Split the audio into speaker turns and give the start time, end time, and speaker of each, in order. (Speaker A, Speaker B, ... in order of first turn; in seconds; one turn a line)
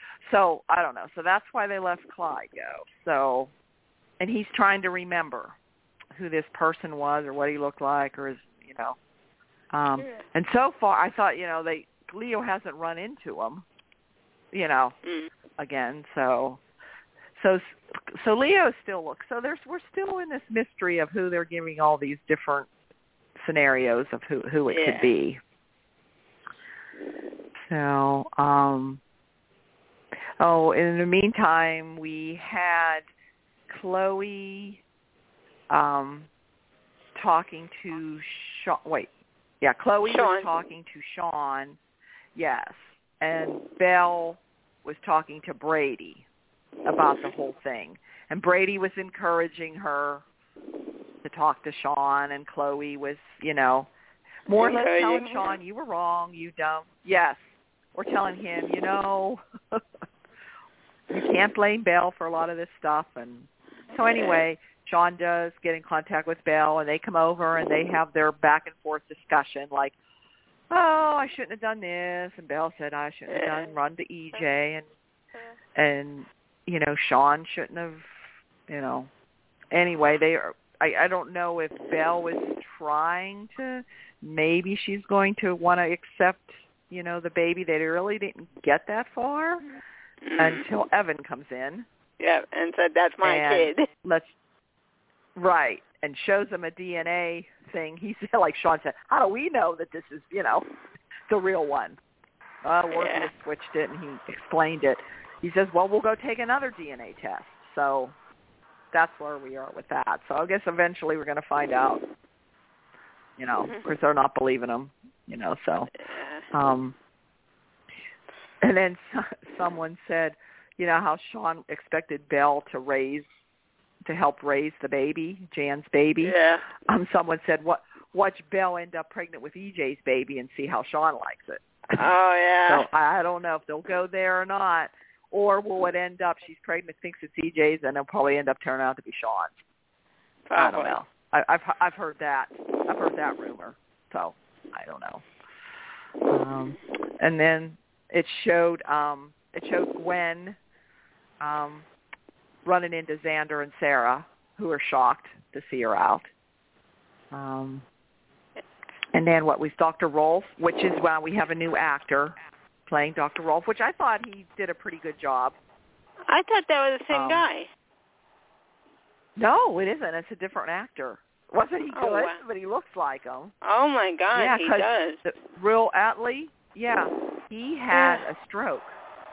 Speaker A: 0.2-3.5
Speaker A: 4.2-5.6
Speaker A: 6.2-9.0
Speaker A: 9.7-13.7
Speaker A: 14.5-14.9
Speaker B: 15.0-15.3
Speaker A: 15.6-16.6
Speaker A: 17.4-22.7
Speaker A: 23.4-25.4
Speaker B: 24.7-25.1
Speaker A: 27.6-29.0
Speaker A: 30.4-33.1
Speaker A: 33.7-34.8
Speaker A: 35.7-36.3
Speaker A: 37.1-39.1
Speaker A: 39.6-41.8
Speaker B: 40.0-40.5
Speaker A: 42.4-46.3
Speaker A: 46.9-50.2
Speaker A: 51.2-53.9
Speaker A: 54.5-59.8
Speaker B: 54.5-55.6
Speaker A: 61.1-70.0
Speaker B: 64.0-64.4
Speaker A: 70.7-74.9
Speaker B: 73.3-73.7
Speaker A: 75.8-78.1
Speaker A: 78.7-79.1
Speaker A: 79.7-89.7
Speaker B: 90.2-90.7
Speaker A: 90.4-91.9
Speaker B: 92.2-93.9
Speaker A: 93.2-94.3
Speaker A: 95.4-100.7
Speaker A: 101.3-102.0
Speaker A: 102.6-108.2
Speaker B: 102.9-103.3
Speaker A: 108.9-112.0
Speaker A: 113.4-115.9
Speaker B: 116.0-116.5
Speaker A: 116.5-117.0
Speaker A: 118.6-123.3
Speaker A: 124.0-126.4
Speaker B: 126.2-126.7
Speaker A: 126.9-132.0
Speaker B: 132.0-132.9
Speaker A: 132.7-139.6
Speaker B: 140.5-141.0
Speaker A: 140.6-145.2
Speaker A: 146.3-150.6
Speaker A: 151.4-151.9
Speaker A: 152.7-156.3
Speaker A: 157.3-157.9
Speaker A: 159.1-162.3
Speaker A: 162.9-165.6
Speaker B: 166.3-167.7
Speaker A: 167.1-167.5
Speaker A: 169.4-173.5
Speaker B: 171.9-172.4
Speaker B: 173.6-175.2
Speaker A: 174.3-179.0
Speaker B: 177.9-178.2